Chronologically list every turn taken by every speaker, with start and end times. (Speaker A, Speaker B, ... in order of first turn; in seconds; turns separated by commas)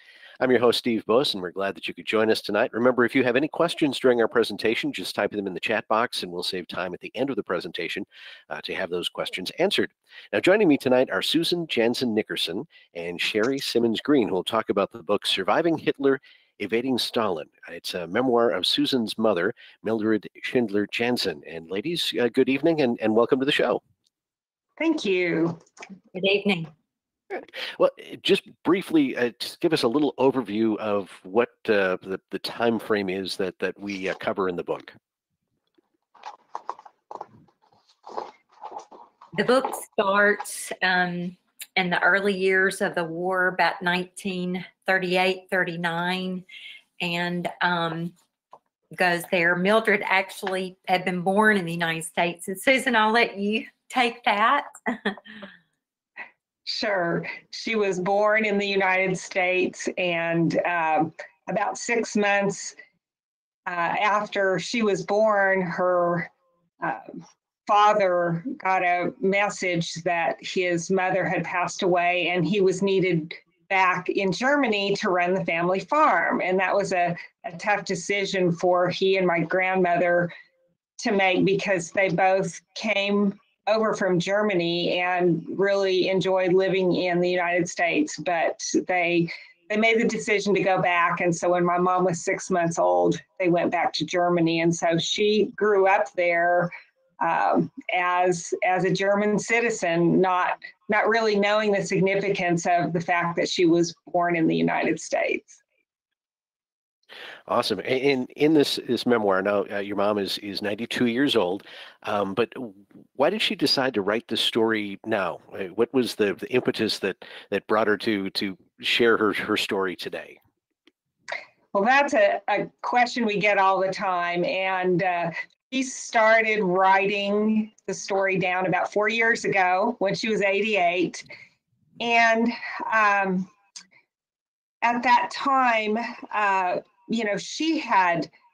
Speaker A: 0.4-23.8, Speaker B: 24.8-25.6, Speaker C: 26.1-26.7, Speaker A: 27.3-34.9, Speaker C: 39.3-46.4, Speaker C: 47.0-48.1, Speaker C: 49.0-55.2, Speaker B: 56.6-62.8, Speaker B: 63.7-80.3, Speaker B: 81.0-105.6, Speaker A: 107.5-120.4, Speaker B: 121.7-131.2, Speaker B: 132.0-133.5, Speaker B: 134.8-138.3